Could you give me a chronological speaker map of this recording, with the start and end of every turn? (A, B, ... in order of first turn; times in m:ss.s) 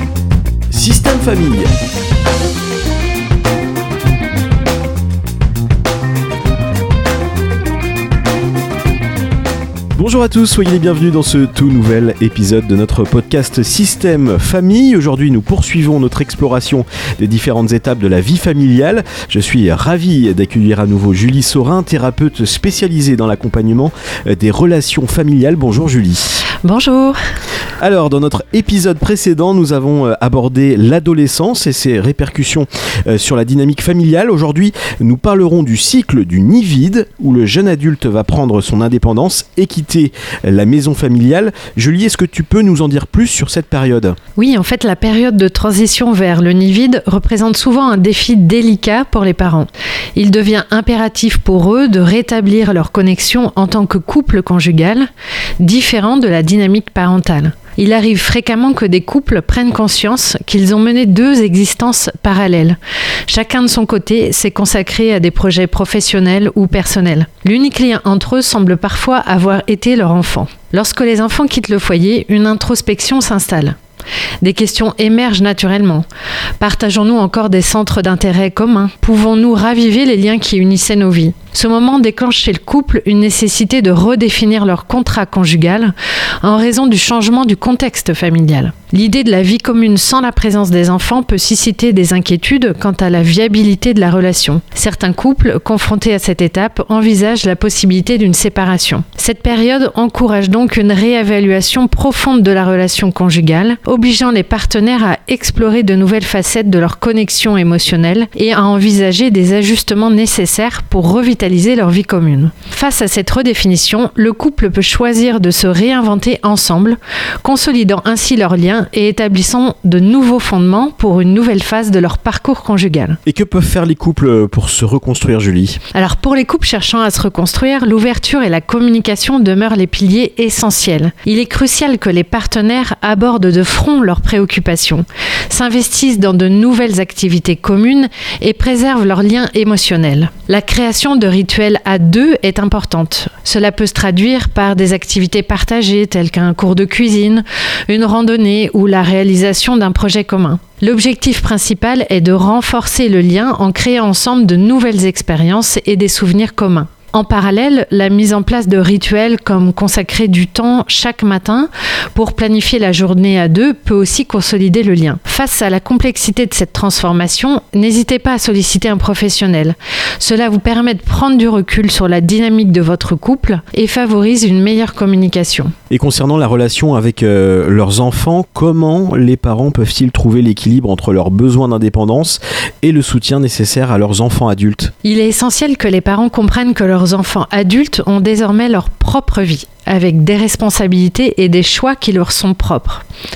0:00.7-0:01.7 A
0:10.0-0:26.4 A
0:26.6-0:27.2 B
0:27.8-0:44.2 A
0:44.4-1:13.8 B
1:14.4-1:16.1 B
1:16.6-2:03.2 B
2:03.3-2:05.8 A
2:05.9-2:55.7 B
2:55.9-3:04.9 A
3:05.0-3:13.0 B